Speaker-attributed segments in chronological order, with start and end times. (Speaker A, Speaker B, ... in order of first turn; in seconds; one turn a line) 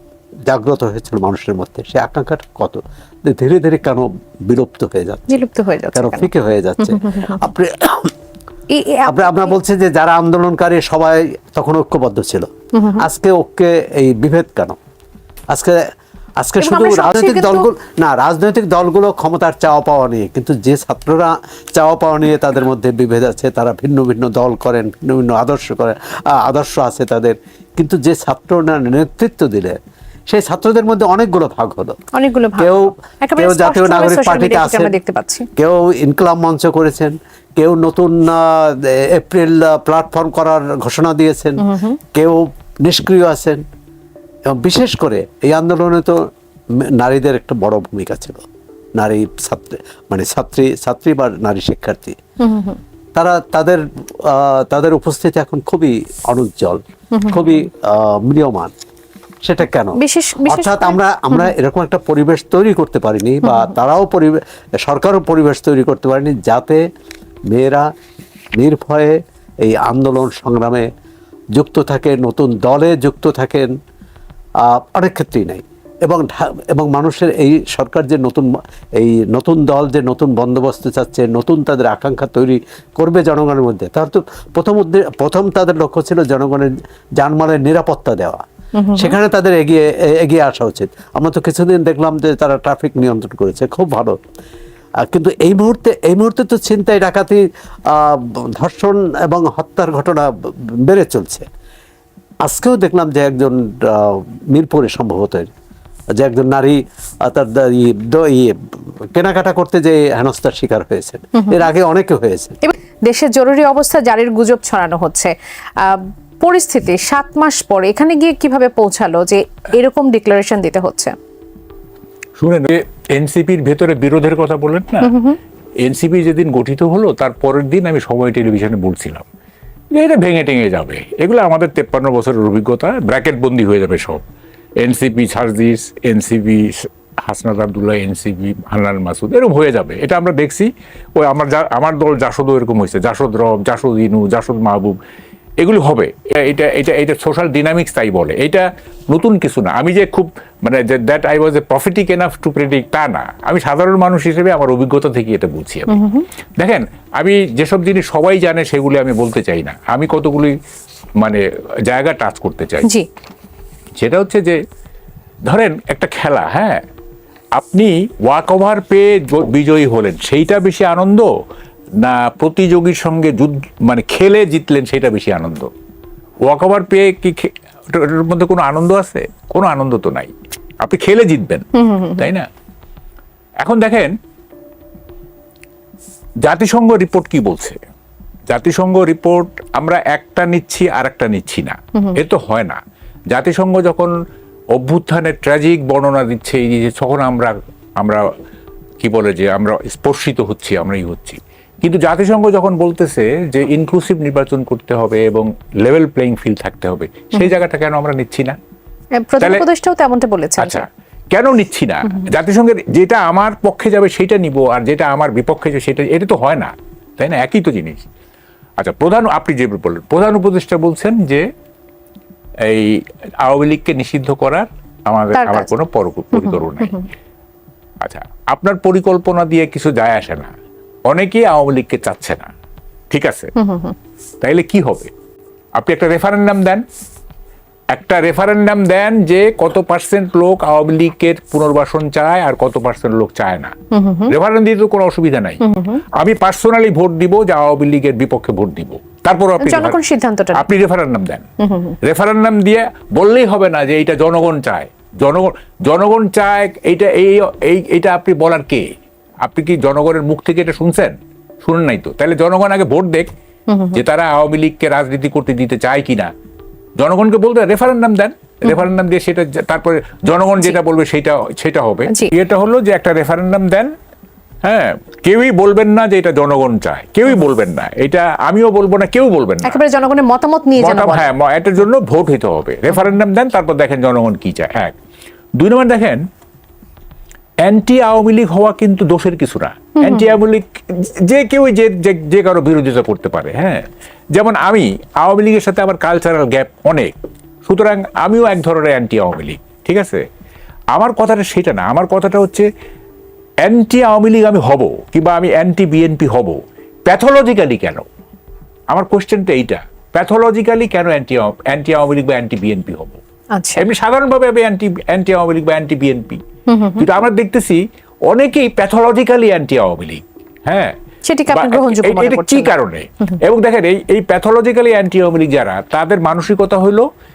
Speaker A: 0.5-5.4
Speaker B: 5.3-6.3
Speaker A: 5.9-8.1
Speaker B: 6.8-7.4
Speaker B: 8.7-9.5
Speaker A: 9.1-14.8
Speaker B: 12.7-13.1
Speaker A: 15.5-15.8
Speaker A: 16.4-29.8
Speaker B: 16.6-17.7
Speaker A: 30.3-32.0
Speaker B: 32.1-35.5
Speaker A: 32.6-34.9
Speaker A: 35.5-43.6
Speaker B: 41.6-42.0
Speaker A: 44.5-46.2
Speaker A: 46.8-48.4
Speaker A: 49.0-52.1
Speaker B: 52.4-52.8
Speaker A: 53.1-58.7
Speaker B: 57.1-57.5
Speaker A: 59.4-66.8
Speaker B: 60.0-61.5
Speaker B: 63.4-63.7
Speaker A: 67.5-67.8
Speaker A: 68.5-70.9
Speaker A: 71.5-73.7
Speaker A: 74.6-88.4
Speaker B: 88.8-89.2
Speaker A: 89.0-94.1
Speaker A: 95.0-101.5
Speaker A: 102.4-105.5
Speaker A: 106.2-108.5
Speaker A: 109.1-112.6
Speaker B: 111.4-111.7
Speaker B: 112.6-121.1
Speaker C: 122.4-125.1
Speaker B: 125.0-125.4
Speaker C: 125.8-129.2
Speaker C: 129.9-134.2
Speaker C: 134.8-144.9
Speaker C: 145.6-156.0
Speaker B: 155.9-156.2
Speaker C: 156.6-160.5
Speaker C: 161.2-162.9
Speaker C: 164.0-164.6
Speaker C: 165.4-166.8
Speaker C: 167.5-171.3
Speaker C: 172.0-175.7
Speaker C: 176.4-182.5
Speaker B: 181.7-182.3
Speaker C: 183.6-184.1
Speaker C: 186.4-187.8
Speaker C: 188.5-192.8
Speaker C: 193.3-194.1
Speaker C: 194.7-198.2
Speaker C: 199.0-208.6
Speaker B: 209.2-210.8
Speaker C: 210.6-218.1
Speaker C: 218.8-221.4
Speaker C: 222.6-227.0
Speaker B: 225.3-225.7
Speaker B: 226.3-227.1
Speaker C: 228.0-230.5
Speaker C: 231.1-232.5
Speaker C: 233.1-233.5
Speaker B: 233.6-233.9
Speaker C: 234.4-235.1
Speaker C: 235.8-236.8
Speaker C: 237.9-243.7
Speaker B: 243.9-244.3
Speaker C: 244.3-245.6
Speaker B: 245.6-246.0
Speaker C: 246.1-250.0
Speaker B: 249.6-250.7
Speaker C: 250.5-251.4
Speaker B: 251.6-251.9
Speaker C: 252.0-258.9
Speaker C: 259.4-263.3
Speaker B: 263.7-264.0
Speaker C: 263.9-266.3
Speaker C: 267.0-273.9
Speaker C: 274.6-279.8
Speaker B: 279.6-281.3
Speaker C: 280.8-284.9
Speaker C: 285.6-286.2
Speaker C: 287.6-293.8
Speaker B: 290.0-290.3
Speaker C: 294.3-297.1
Speaker C: 297.6-300.2
Speaker C: 300.9-302.7
Speaker C: 303.6-308.1
Speaker C: 308.9-313.2
Speaker B: 313.5-313.8
Speaker C: 313.8-316.4
Speaker B: 316.7-317.1
Speaker C: 317.0-320.9
Speaker B: 321.2-322.8
Speaker C: 321.5-327.1